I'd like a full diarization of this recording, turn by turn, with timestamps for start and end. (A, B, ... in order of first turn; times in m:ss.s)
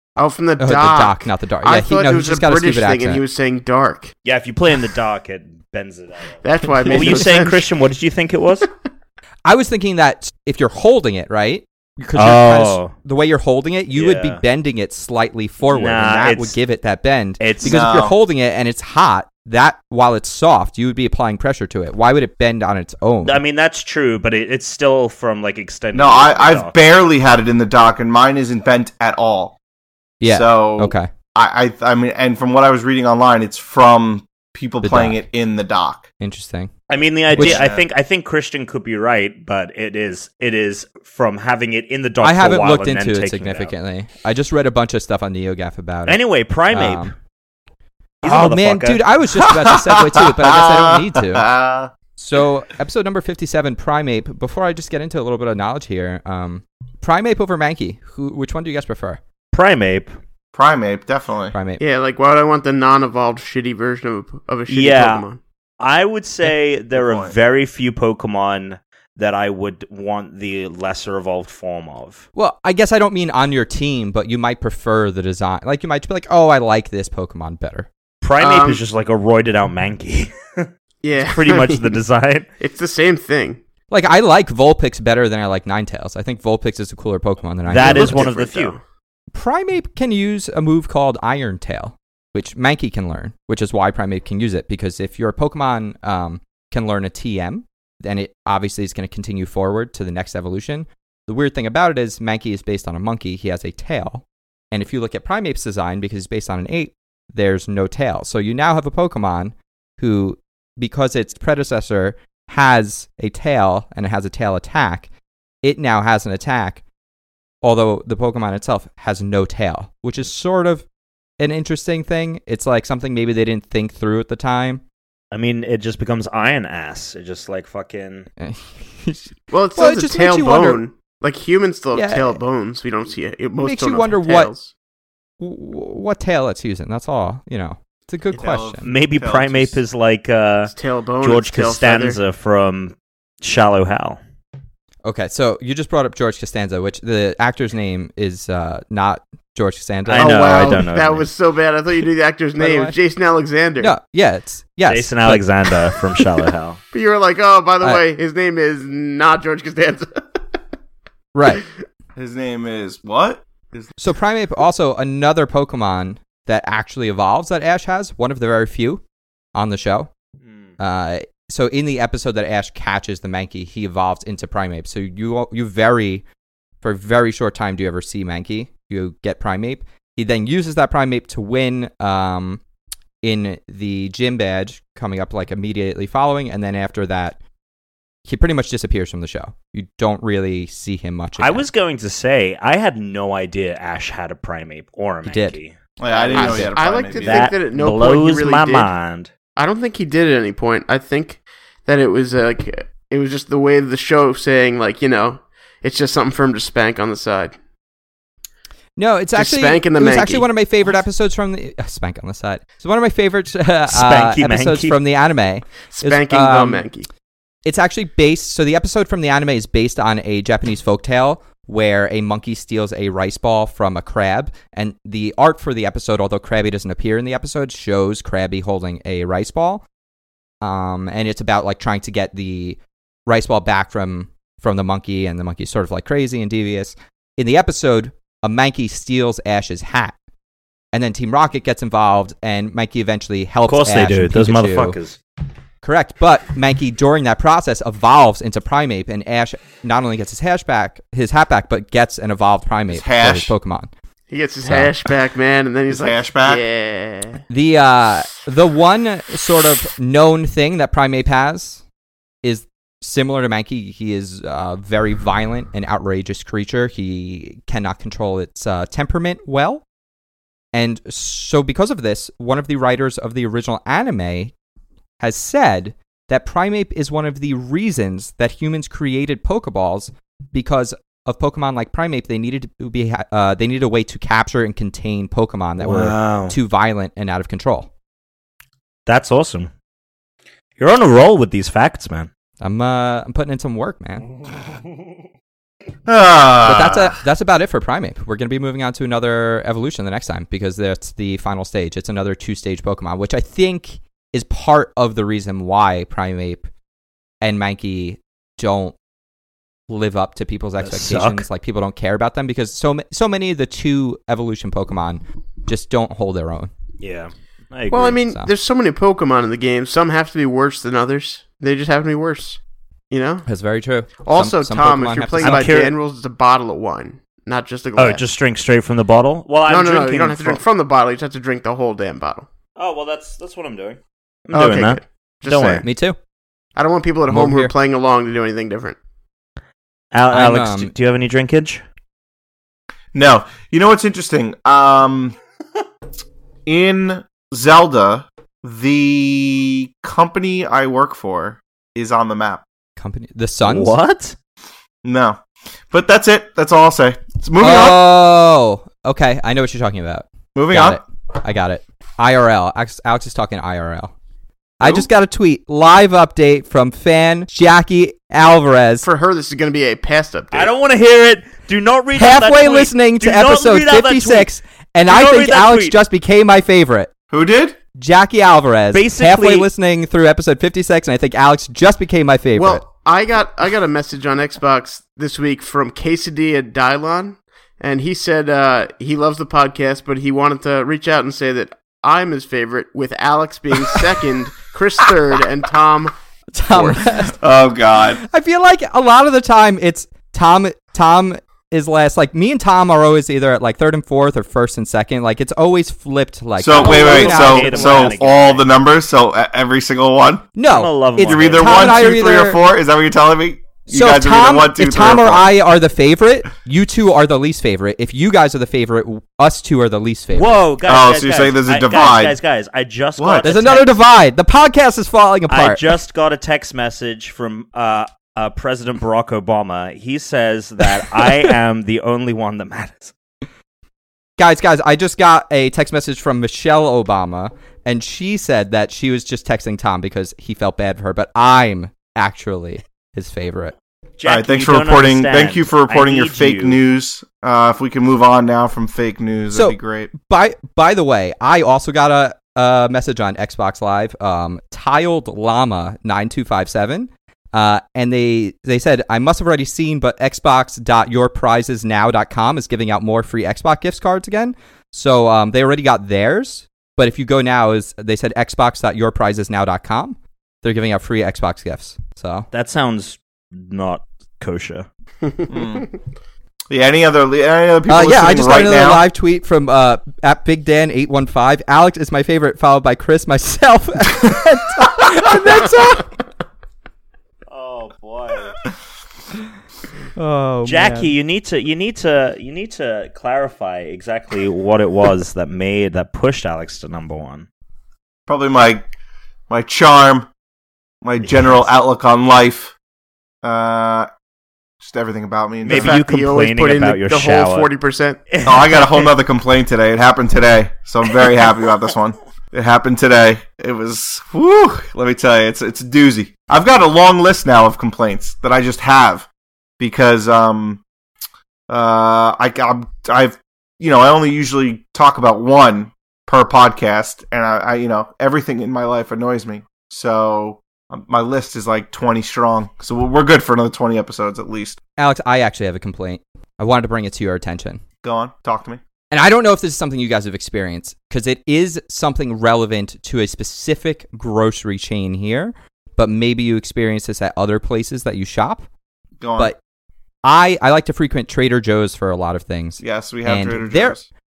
0:00.2-0:04.1 A
0:00.6-0:03.2 B
0:04.2-0:08.7 C
0:06.4-0:07.7 A
0:09.4-0:23.4 B
0:12.2-0:12.9 C
0:13.9-0:14.4 C
0:15.7-0:16.6 C
0:17.4-0:17.8 C
0:17.6-0:18.2 D
0:23.2-0:26.7 C
0:25.9-0:29.6 D
0:30.2-0:31.1 B
0:30.3-0:36.1 D
0:34.8-0:35.2 B
0:36.2-0:36.7 B
0:36.9-0:43.7 C
0:37.3-0:37.6 B
0:37.3-0:37.9 D
0:42.2-0:47.1 B
0:46.1-0:47.1 C
0:48.2-0:49.0 C
0:48.2-0:51.5 B
0:49.3-0:51.9 D
0:52.2-0:59.2 B
0:59.5-1:00.1 C
1:00.5-1:01.5 D
1:01.5-1:01.8 B
1:01.8-1:05.4 A
1:04.7-1:05.2 C
1:05.8-1:12.2 C
1:06.9-1:07.3 D
1:12.3-1:17.9 B
1:18.2-1:22.5 C
1:18.4-1:18.8 A
1:21.0-1:22.0 A
1:22.6-1:23.6 A
1:23.9-1:28.2 B
1:27.7-1:28.7 C
1:27.8-1:28.8 A
1:29.3-1:55.1 B
1:55.6-1:56.8 B
1:57.6-2:00.8 B
2:01.4-2:04.8 B
2:05.3-2:08.3 C
2:08.4-2:10.8 B
2:09.5-2:14.7 A
2:11.9-2:12.4 B
2:13.6-2:14.5 B
2:15.4-2:18.9 B
2:18.3-2:19.8 D
2:18.8-2:24.2 C
2:20.7-2:22.2 A
2:25.0-2:30.8 B
2:30.1-2:31.3 C
2:30.1-2:33.9 A
2:32.6-2:32.9 B
2:33.8-2:35.4 B
2:34.9-2:36.8 C
2:36.9-2:40.4 A
2:41.3-2:41.6 B
2:42.2-2:43.9 D
2:44.0-2:49.0 B
2:49.5-2:50.1 B
2:50.8-2:56.2 B
2:56.8-3:02.6 B
3:03.2-3:07.4 B
3:08.2-3:11.6 B
3:11.4-3:16.6 C
3:15.2-3:15.6 B
3:16.0-3:17.5 D
3:16.3-3:18.9 A
3:17.2-3:19.3 C
3:19.6-3:27.5 A
3:29.0-3:36.9 B
3:29.3-3:30.4 A
3:33.9-3:35.0 C
3:35.9-3:37.1 A
3:37.6-3:49.8 B
3:50.6-4:00.1 B
4:00.9-4:05.0 B
4:03.7-4:05.2 C
4:05.8-4:13.9 B
4:12.9-4:13.5 D
4:14.3-4:17.4 A
4:14.6-4:14.9 B
4:15.9-4:16.6 D
4:17.5-4:21.8 B
4:22.4-4:29.8 B
4:30.7-4:34.5 B
4:35.2-4:47.9 B
4:45.8-4:46.5 C
4:49.0-4:49.7 C
4:50.8-4:52.3 C
4:52.6-4:54.2 B
4:56.0-4:57.2 D
4:56.6-5:06.6 B
5:07.4-5:09.0 B
5:09.9-5:16.7 B
5:10.8-5:11.4 C
5:17.0-5:18.2 C
5:17.9-5:22.6 A
5:18.2-5:18.5 B
5:23.1-5:23.4 A
5:23.4-5:25.7 B
5:24.2-5:28.2 A
5:25.4-5:25.9 C
5:28.0-5:30.6 C
5:29.7-5:32.5 A
5:32.8-5:35.8 C
5:34.5-5:35.8 A
5:35.8-5:36.2 B
5:36.8-5:39.0 A
5:37.3-5:37.7 B
5:40.1-5:41.8 C
5:40.3-5:40.9 B
5:43.1-5:45.4 D
5:46.6-5:52.6 D
5:53.0-5:54.0 B
5:53.6-5:54.3 C
5:55.0-5:58.0 D
5:57.6-6:04.1 B
6:00.5-6:01.0 D
6:04.8-6:09.1 B
6:04.8-6:05.1 D
6:09.0-6:10.7 A
6:10.5-6:14.5 C
6:12.1-6:17.1 B
6:15.1-6:16.0 C
6:17.3-6:17.8 D
6:18.0-6:22.8 B
6:18.9-6:19.7 C
6:22.6-6:36.1 A
6:36.5-6:37.4 B
6:36.7-6:37.0 A
6:37.3-6:38.2 D
6:38.2-6:48.2 B
6:46.6-6:50.5 D
6:46.7-6:48.6 C
6:50.6-6:52.6 B
6:50.7-6:52.2 C
6:51.2-6:55.5 D
6:53.9-7:00.6 B
7:00.3-7:03.9 C
7:00.8-7:02.4 D
7:03.2-7:03.5 D
7:03.4-7:05.8 B
7:05.5-7:13.1 C
7:14.4-7:23.7 B
7:24.2-7:26.8 C
7:24.2-7:30.1 D
7:29.5-7:52.5 B
7:52.5-7:54.9 C
7:55.5-7:55.9 D
7:56.7-7:59.0 D
7:57.9-8:06.1 B
8:07.5-8:08.6 C
8:10.2-8:11.1 B
8:10.6-8:17.5 C
8:18.3-8:18.9 D
8:19.5-8:20.3 D
8:21.0-8:22.7 D
8:23.4-8:24.1 D
8:24.8-8:26.0 D
8:25.6-8:27.7 C
8:25.6-8:28.2 A
8:28.3-8:29.1 C
8:28.4-8:39.3 D
8:39.8-8:40.8 D
8:41.7-8:54.8 D
8:55.0-8:57.8 B
8:58.0-8:58.8 D
8:59.1-9:08.6 B
9:09.2-9:09.5 D
9:10.2-9:14.0 B
9:12.8-9:14.1 D